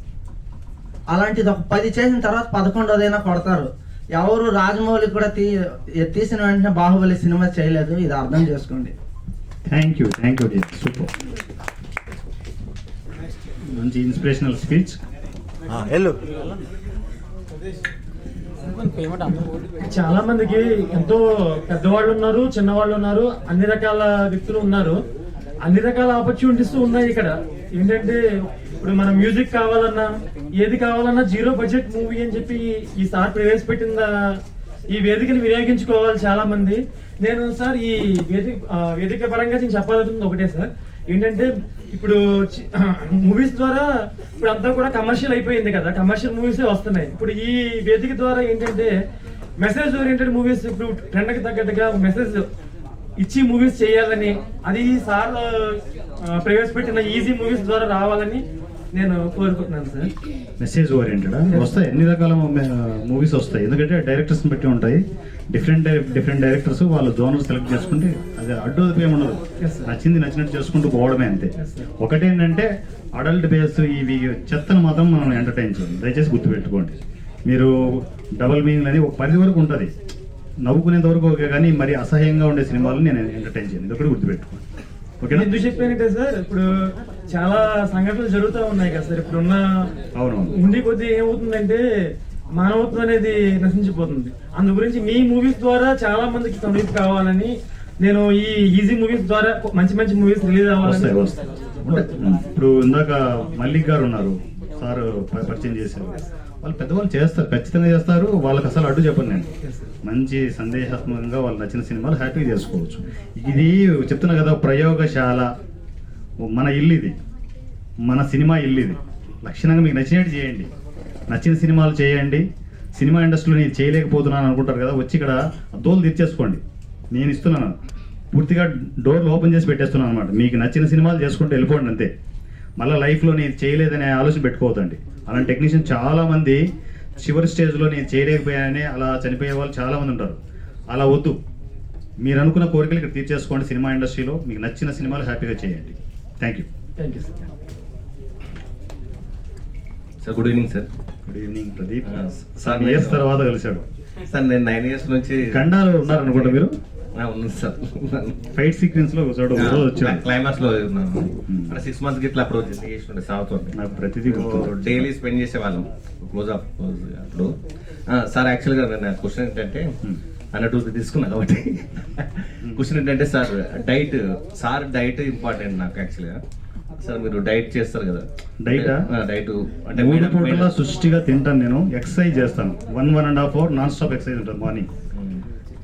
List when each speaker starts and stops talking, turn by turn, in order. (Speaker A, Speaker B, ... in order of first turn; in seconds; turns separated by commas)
Speaker A: 1.1-8.9, Speaker B: 9.7-11.1, Speaker B: 13.8-15.0, Speaker C: 19.9-24.9, Speaker C: 25.6-28.2, Speaker C: 28.8-30.1, Speaker C: 30.6-34.1, Speaker C: 35.0-43.8, Speaker C: 44.4-48.9, Speaker C: 49.6-52.4, Speaker C: 53.2-55.4, Speaker C: 56.4-58.4, Speaker C: 59.0-60.1, Speaker B: 60.6-79.9, Speaker B: 80.6-84.6, Speaker B: 85.2-85.5, Speaker C: 85.3-86.7, Speaker C: 87.3-89.6, Speaker B: 90.2-90.5, Speaker C: 90.6-91.8, Speaker C: 92.6-101.2, Speaker B: 100.8-101.3, Speaker B: 101.9-109.5, Speaker B: 110.1-115.5, Speaker B: 116.5-117.2, Speaker B: 118.1-120.7, Speaker B: 121.3-122.4, Speaker B: 123.0-127.8, Speaker B: 128.3-132.1, Speaker B: 132.8-136.6, Speaker B: 137.2-140.4, Speaker B: 140.9-141.4, Speaker B: 142.2-146.7, Speaker C: 147.0-147.4, Speaker D: 150.2-150.9, Speaker B: 151.3-153.8, Speaker D: 152.1-153.2, Speaker D: 154.3-156.6, Speaker B: 155.5-156.7, Speaker D: 157.2-158.4, Speaker B: 158.6-160.2, Speaker D: 159.5-163.7, Speaker B: 161.5-161.8, Speaker B: 163.9-164.8, Speaker D: 164.3-167.5, Speaker D: 168.1-169.9, Speaker D: 170.5-176.4, Speaker D: 177.0-180.7, Speaker B: 178.6-179.0, Speaker B: 180.0-184.9